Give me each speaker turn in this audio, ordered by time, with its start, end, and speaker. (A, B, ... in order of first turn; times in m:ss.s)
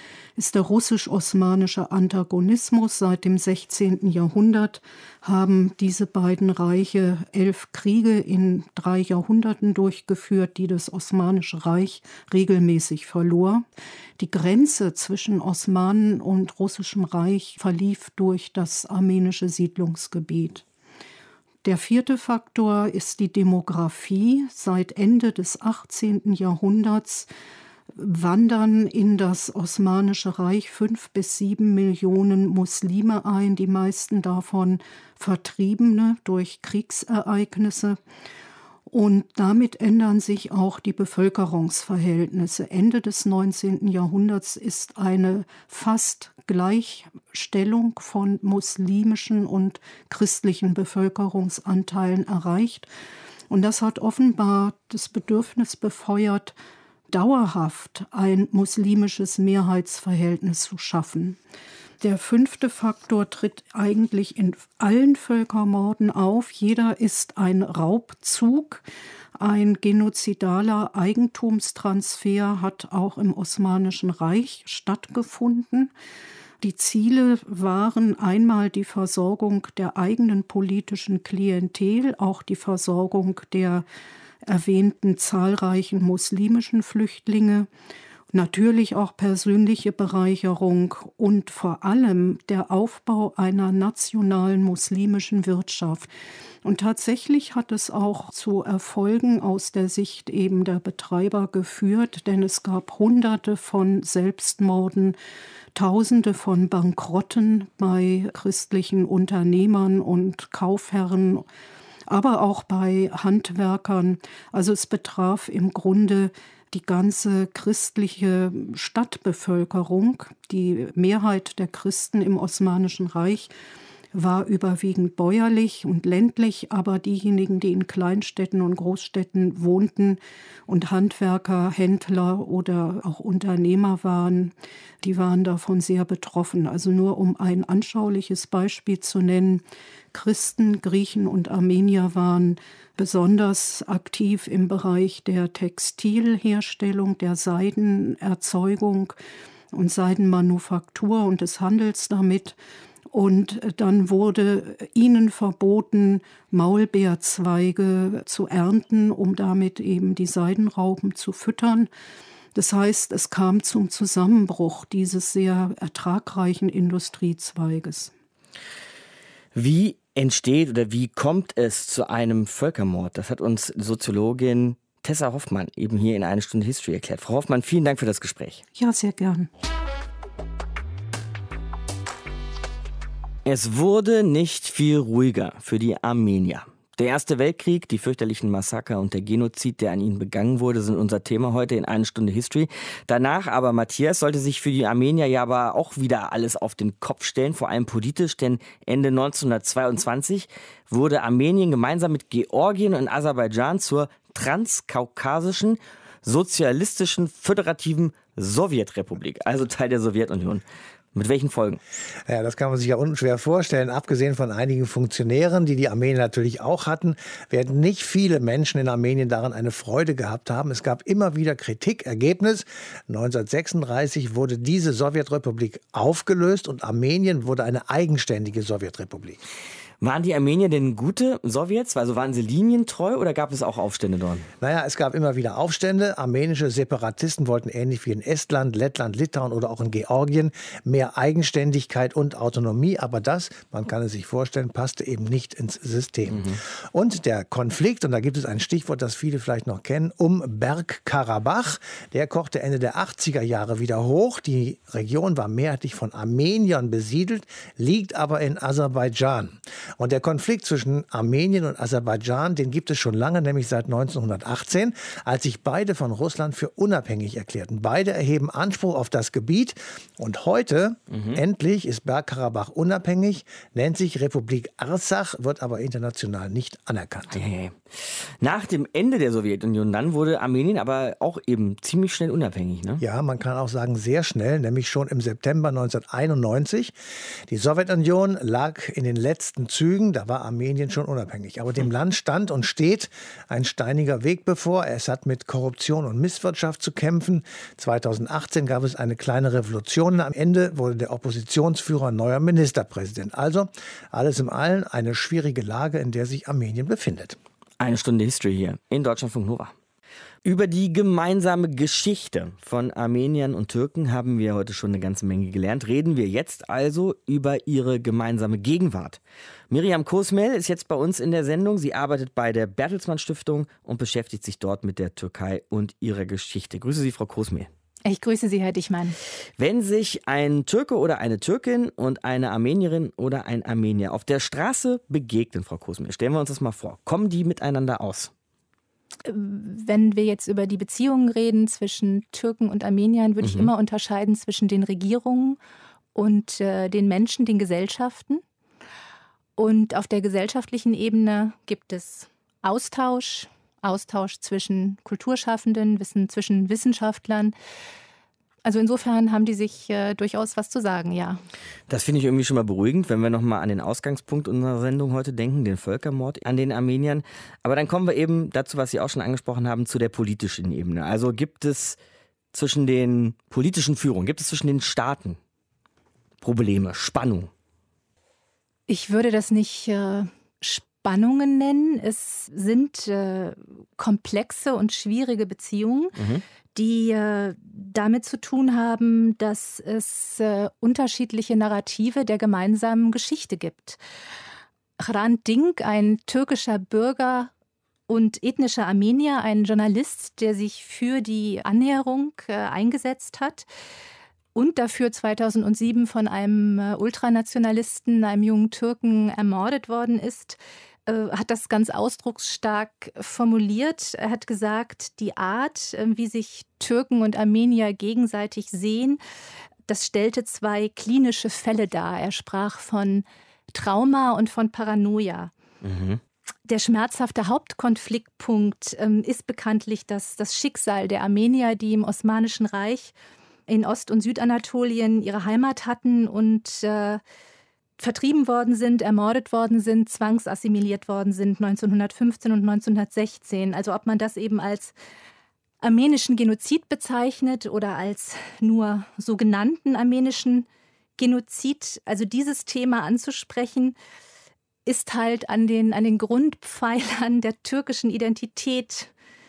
0:00.4-0:13.6 A
0:14.2-0:20.6 A
0:21.6-0:27.3 A
0:27.9-0:38.0 A
0:38.9-0:52.9 A
0:53.5-0:56.5 A
0:57.1-1:01.4 A
1:02.0-1:08.8 A
1:09.4-1:15.9 A
1:16.6-1:23.8 A
1:24.4-1:27.7 A
1:28.3-1:36.1 A
1:36.6-1:45.2 A
1:45.7-1:51.4 A
1:52.1-2:03.5 A
2:04.1-2:29.2 A
2:29.7-2:32.6 A
2:33.1-2:41.9 A
2:42.5-2:48.1 A
2:49.5-2:58.6 B
2:58.8-2:59.5 A
3:03.4-3:31.8 B
3:32.2-3:49.4 C
3:50.0-3:54.5 B
3:54.6-4:37.4 C
4:06.3-4:06.6 B
4:31.1-4:31.4 B
4:37.3-4:43.0 B
4:43.0-4:47.0 C
4:47.5-5:07.4 C
5:07.8-5:09.7 B
5:10.4-5:27.7 B
5:28.0-5:29.2 D
5:29.6-5:38.3 B
5:39.2-5:45.6 D
5:43.4-5:43.7 B
5:46.1-5:48.4 D
5:49.6-5:57.5 D
5:58.6-6:01.4 D
6:01.9-6:12.0 B
6:12.5-6:15.4 B
6:16.4-6:17.5 B
6:18.9-6:26.1 D
6:26.2-6:26.4 B
6:26.7-6:34.0 D
6:35.0-6:37.5 D
6:38.1-6:43.6 D
6:44.5-6:59.2 D
6:59.9-7:05.5 D
7:05.8-7:06.2 B
7:06.6-7:13.1 D
7:13.7-7:17.2 D
7:18.0-7:24.9 D
7:25.8-7:30.7 D
7:31.2-7:33.9 D
7:34.8-7:39.1 D